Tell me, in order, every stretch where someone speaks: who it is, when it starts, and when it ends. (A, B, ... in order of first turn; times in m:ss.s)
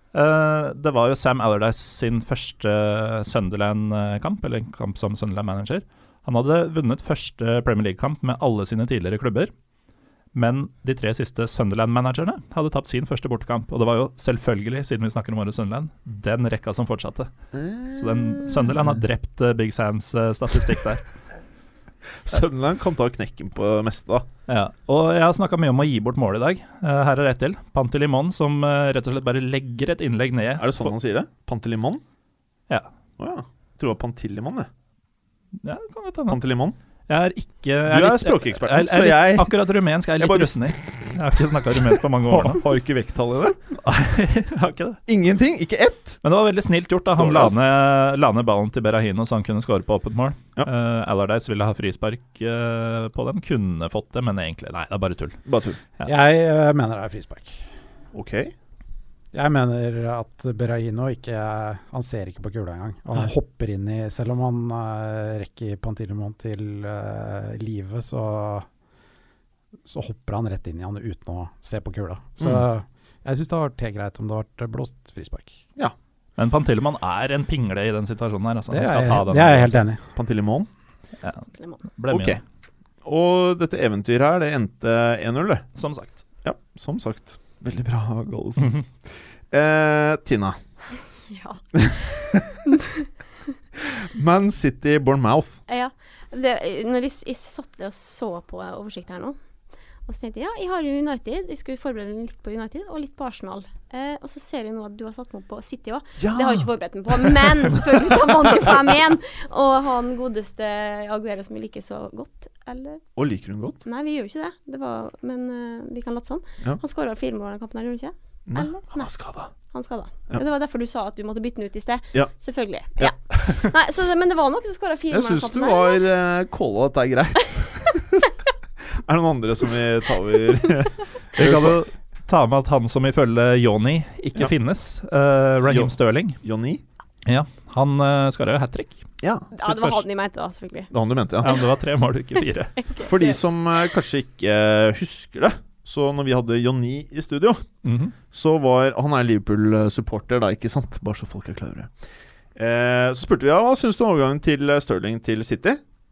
0:00.1-0:09.5 A
0:10.3-0:17.3 A
0:17.5-0:18.8 B
0:17.9-0:21.1 A
0:22.2-0:24.2 B
0:24.5-0:30.9 A
0:30.6-0:32.0 B
0:33.2-0:34.7 B
0:35.6-0:36.4 A
0:36.3-0:36.8 B
0:37.1-0:42.6 A
0:37.9-0:39.5 B
0:40.2-0:41.0 B
0:42.3-0:43.6 B
0:43.7-0:45.0 A
0:45.1-0:46.2 B
0:46.2-0:55.4 A
0:47.2-0:47.6 B
0:55.4-0:55.8 B
0:56.0-0:57.6 C
0:58.1-0:58.5 B
0:59.3-1:08.7 C
1:09.8-1:15.6 C
1:16.4-1:19.8 A
1:18.7-1:20.0 C
1:20.2-1:20.7 B
1:22.0-1:22.4 A
1:22.1-1:22.4 B
1:23.0-1:25.6 B
1:25.8-1:26.2 A
1:26.4-1:30.6 B
1:31.3-1:31.6 D
1:31.8-1:32.6 B
1:32.6-1:33.0 D
1:33.8-1:35.6 B
1:35.7-1:39.4 D
1:40.0-1:53.0 D
1:46.2-1:46.7 B
1:47.2-1:48.2 B
1:53.2-1:53.8 B
1:53.8-2:06.0 D
1:58.5-1:59.5 B
2:03.0-2:03.7 B
2:05.1-2:08.1 B
2:08.9-2:11.8 B
2:11.3-2:16.4 A
2:15.7-2:16.8 B
2:17.2-2:19.1 A
2:19.2-2:19.5 B
2:19.5-2:20.9 D
2:19.6-2:20.0 A
2:20.9-2:21.5 B
2:21.4-2:22.8 A
2:22.8-2:23.4 D
2:23.0-2:27.6 B
2:27.8-2:28.2 A
2:28.3-2:31.9 B
2:32.6-2:35.8 B